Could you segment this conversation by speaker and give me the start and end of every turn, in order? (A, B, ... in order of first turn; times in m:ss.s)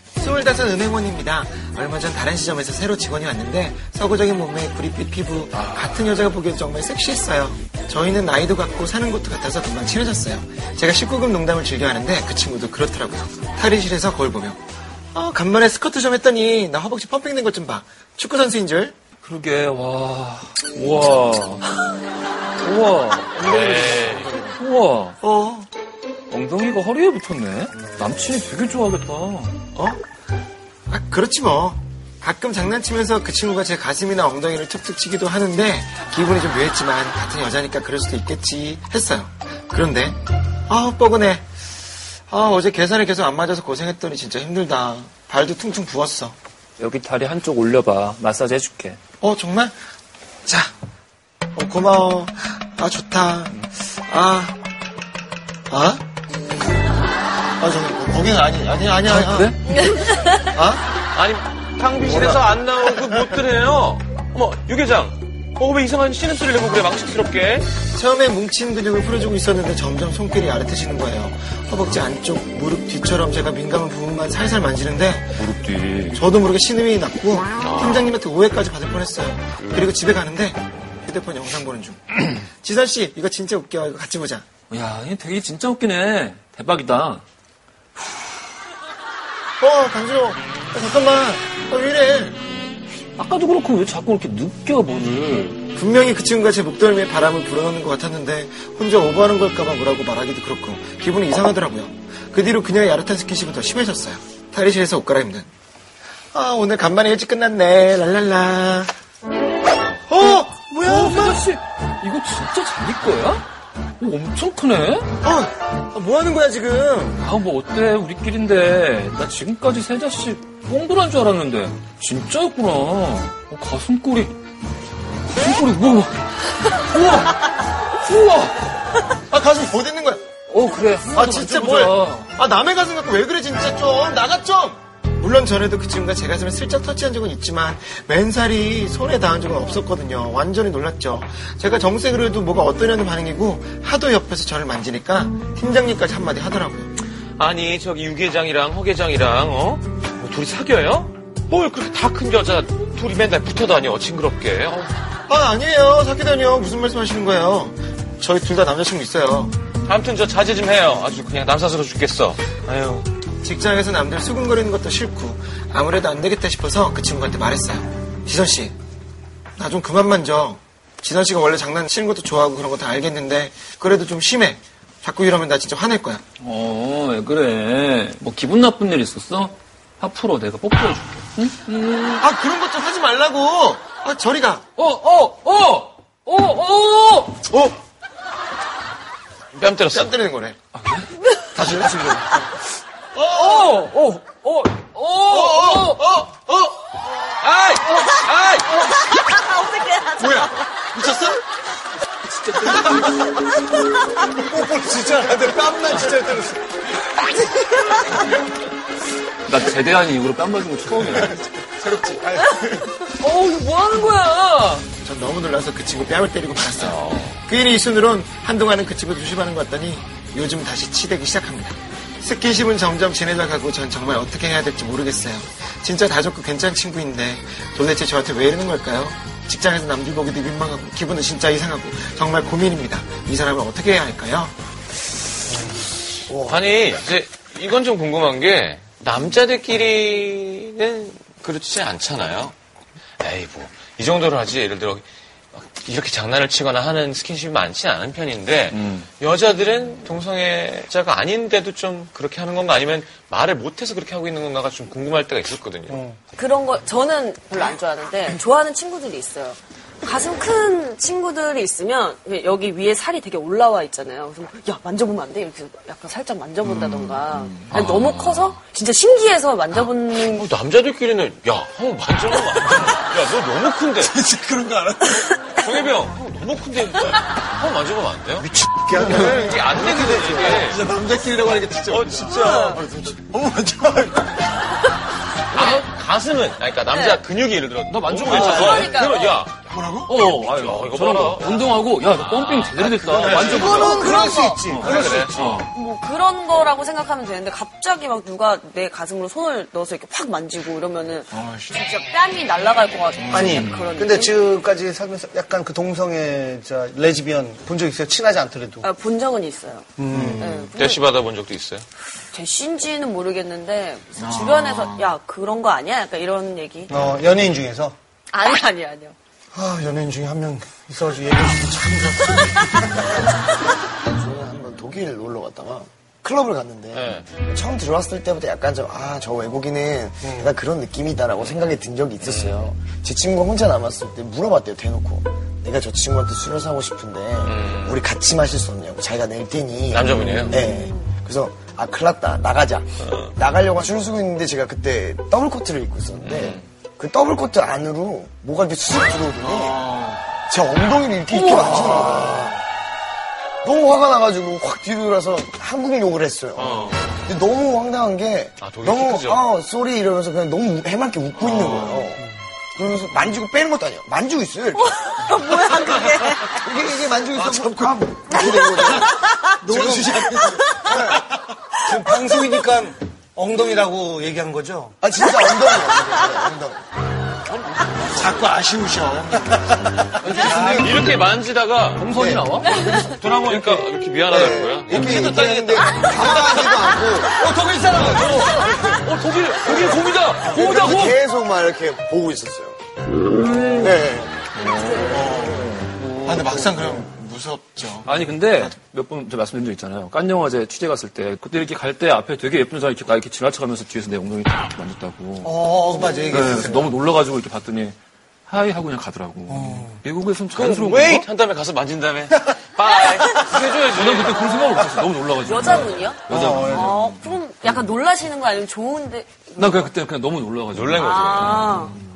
0:00.2-0:14.6 A
0:05.5-0:06.0 B
0:15.1-0:19.0 A
0:19.2-0:21.8 B
0:22.6-0:25.2 B
0:23.4-0:24.4 C
0:25.2-0:25.7 A
0:26.3-0:29.6 B
0:29.7-0:30.0 A
0:30.9-0:41.4 A
0:42.3-0:46.4 A
0:46.8-0:49.0 B
0:49.2-0:49.8 A
0:50.4-0:50.7 A
0:51.5-0:54.6 A
0:55.7-0:56.0 A
0:57.6-1:00.8 A
0:59.0-0:59.6 B
0:59.9-1:00.4 D
1:01.1-1:07.7 C
1:02.0-1:02.4 A
1:07.9-1:15.4 A
1:15.4-1:16.2 B
1:16.1-1:24.4 A
1:17.6-1:18.1 C
1:24.7-1:27.2 B
1:29.6-1:32.4 A
1:33.2-1:35.6 B
1:35.7-1:45.5 A
1:46.3-1:48.9 A
1:50.1-1:51.4 A
1:50.7-1:53.4 B
1:54.0-1:55.1 B
1:55.2-1:57.2 A
1:57.2-2:04.3 B
2:05.3-2:08.7 B
2:09.1-2:10.2 A
2:10.5-2:12.3 B
2:11.1-2:26.9 A
2:27.4-2:34.9 C
2:35.3-2:39.6 A
2:39.8-2:43.1 C
2:43.4-2:48.8 A
2:49.6-2:56.2 A
2:56.4-3:02.2 B
3:02.2-3:04.6 A
3:04.8-3:07.5 B
3:09.5-3:10.1 C
3:09.9-3:10.6 A
3:10.7-3:12.0 B
3:11.5-3:12.4 A
3:13.2-3:13.7 A
3:13.2-3:16.0 B
3:15.5-3:15.9 A
3:15.7-3:16.2 C
3:17.4-3:19.0 C
3:19.1-3:20.8 D
3:20.2-3:21.4 A
3:22.3-3:23.3 B
3:24.3-3:26.7 E
3:27.6-3:28.0 D
3:29.4-3:31.5 B
3:31.8-3:32.4 A
3:32.4-3:34.9 B
3:35.0-3:54.6 A
3:36.8-3:37.4 C
3:56.3-3:56.6 F
3:56.3-4:02.5 C
4:03.2-4:05.0 C
4:05.5-4:16.0 C
4:08.7-4:09.0 B
4:15.9-4:16.2 E
4:16.4-4:30.5 D
4:26.8-4:27.2 A
4:27.8-4:28.4 C
4:30.1-4:34.2 C
4:34.0-4:35.3 A
4:35.5-4:38.5 C
4:38.4-4:40.7 E
4:39.0-4:40.8 C
4:40.6-4:44.4 A
4:41.9-4:42.7 C
4:42.4-4:42.8 D
4:45.5-4:49.6 C
4:46.9-4:47.2 D
4:47.9-4:49.0 B
4:48.4-4:49.5 D
4:49.6-4:50.2 A
4:50.0-4:54.2 B
4:50.3-4:54.0 C
4:53.0-4:55.3 E
4:53.9-4:54.7 D
4:54.7-4:55.7 B
4:54.8-4:55.6 C
4:55.7-5:04.5 D
5:01.3-5:01.8 A
5:03.2-5:03.6 A
5:03.3-5:08.9 E
5:08.8-5:11.0 D
5:10.0-5:10.6 E
5:10.1-5:10.7 A
5:10.7-5:11.8 C
5:12.3-5:17.1 D
5:14.2-5:15.1 A
5:16.9-5:18.0 E
5:18.3-5:19.2 D
5:19.5-5:23.2 E
5:23.9-5:49.8 F
5:26.9-5:27.2 C
5:30.2-5:30.5 E
5:32.2-5:32.7 C
5:37.4-5:38.0 C
5:39.9-5:40.6 C
5:40.6-5:40.9 D
5:46.2-5:46.6 C
5:49.5-5:50.1 C
5:50.5-5:52.6 F
5:53.6-6:05.0 F
5:56.6-5:57.1 C
5:58.6-5:59.4 C
6:01.4-6:02.1 A
6:04.8-6:06.6 D
6:06.4-6:11.0 F
6:08.3-6:09.5 D
6:08.7-6:10.8 A
6:09.7-6:10.3 E
6:10.6-6:10.9 D
6:10.8-6:15.0 E
6:15.0-6:16.8 F
6:17.5-6:18.3 C
6:18.0-6:20.8 A
6:20.1-6:20.7 E
6:20.1-6:21.2 B
6:20.5-6:22.1 C
6:21.9-6:22.8 B
6:22.1-6:22.4 F
6:22.7-6:23.1 D
6:22.8-6:27.2 C
6:23.7-6:25.0 E
6:24.3-6:27.5 F
6:27.3-6:31.2 B
6:28.3-6:29.7 C
6:30.4-6:32.8 F
6:33.2-6:34.0 B
6:33.8-6:34.4 F
6:34.5-6:36.7 B
6:35.0-6:38.7 A
6:38.0-6:48.0 B
6:45.4-6:46.9 E
6:48.5-6:51.3 B
6:49.5-6:50.0 E
6:50.5-6:54.5 C
6:53.9-6:57.2 B
6:54.4-6:54.7 D
6:55.4-6:59.9 D
6:56.3-6:57.2 E
6:59.6-7:01.9 B
7:00.7-7:01.7 C
7:01.0-7:02.0 D